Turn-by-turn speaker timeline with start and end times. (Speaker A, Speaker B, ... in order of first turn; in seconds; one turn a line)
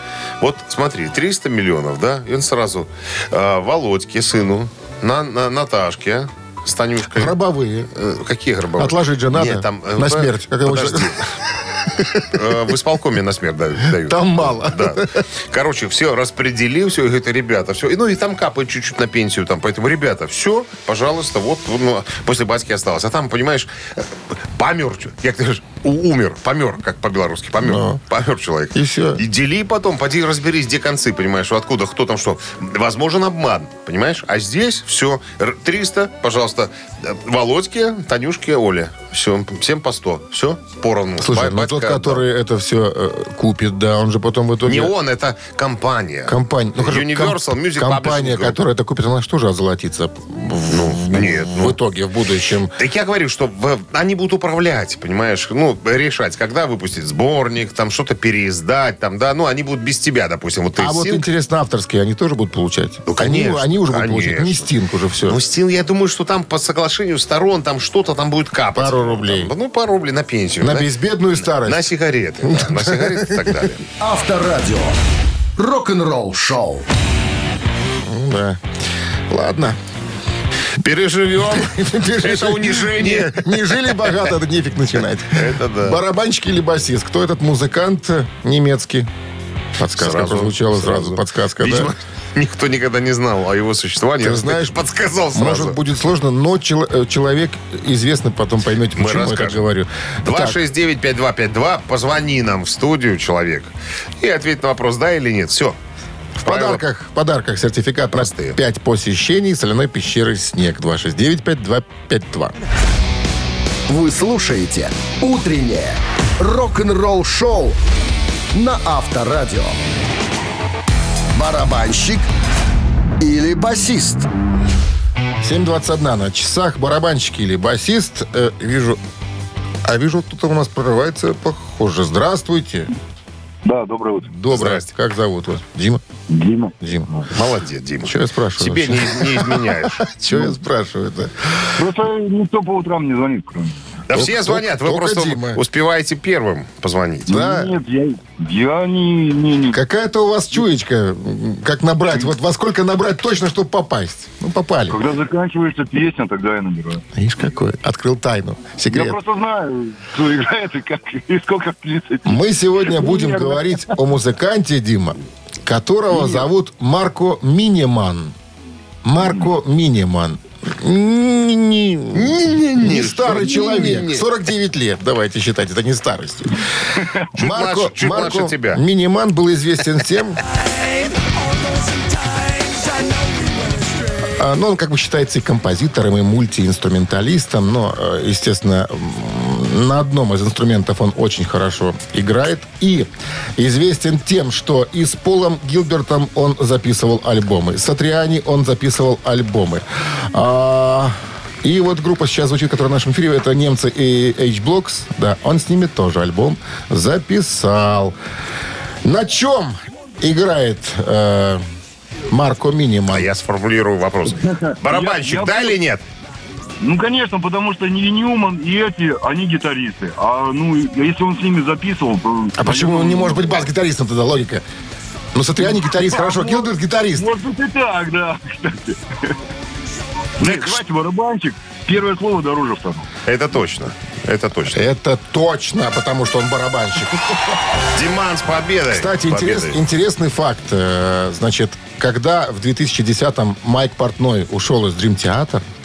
Speaker A: 0.4-7.4
Speaker B: 7.1-7.9
Speaker A: 7.9-11.3
Speaker B: 8.8-11.2
Speaker B: 11.8-12.5
Speaker A: 12.3-15.0
Speaker B: 14.0-15.2
Speaker A: 15.5-42.2
Speaker B: 27.6-28.0
Speaker B: 28.7-29.2
Speaker B: 41.2-44.9
Speaker A: 44.7-48.6
Speaker B: 46.3-52.8
Speaker A: 50.7-51.8
Speaker A: 52.8-61.3
Speaker B: 60.8-65.4
Speaker A: 63.1-64.7
Speaker A: 65.2-73.8
Speaker B: 68.7-69.5
Speaker B: 70.6-71.9
Speaker B: 72.4-73.6
Speaker C: 74.0-75.0
Speaker C: 75.6-76.9
Speaker B: 78.0-78.6
Speaker B: 79.3-79.8
Speaker A: 80.8-84.2
Speaker B: 81.5-89.1
Speaker A: 85.3-86.0
Speaker B: 89.8-91.9
Speaker A: 90.0-95.8
Speaker B: 94.2-94.8
Speaker B: 95.3-100.6
Speaker A: 99.0-99.7
Speaker A: 100.2-105.8
Speaker A: 106.4-106.8
Speaker B: 106.4-112.5
Speaker A: 108.1-108.6
Speaker C: 113.9-117.8
Speaker C: 118.5-119.8
Speaker C: 121.3-122.3
Speaker C: 123.2-124.3
Speaker B: 125.4-129.0
Speaker B: 129.8-132.9
Speaker D: 133.7-134.3
Speaker B: 134.3-136.0
Speaker A: 134.5-134.9
Speaker D: 136.3-137.3
Speaker B: 136.8-137.1
Speaker A: 137.3-140.1
Speaker B: 138.1-141.8
Speaker D: 141.8-143.8
Speaker A: 144.1-147.3
Speaker B: 144.1-145.6
Speaker B: 147.3-147.7
Speaker D: 147.3-149.8
Speaker B: 149.7-155.0
Speaker D: 154.9-157.0
Speaker B: 157.2-159.2
Speaker D: 158.9-163.9
Speaker B: 162.2-168.3
Speaker D: 166.1-166.5
Speaker B: 169.0-176.6
Speaker A: 172.1-174.3
Speaker B: 177.3-180.4
Speaker A: 177.4-178.8
Speaker B: 184.4-208.2
Speaker B: 209.0-211.6
Speaker B: 212.3-213.3
Speaker A: 213.1-216.1
Speaker D: 214.4-215.8
Speaker D: 216.8-223.6
Speaker B: 222.6-224.6
Speaker B: 225.3-227.3
Speaker D: 225.6-229.3
Speaker D: 230.4-233.1
Speaker A: 230.4-230.8
Speaker A: 233.3-234.8
Speaker B: 234.7-237.6
Speaker A: 237.9-239.8
Speaker B: 238.9-245.7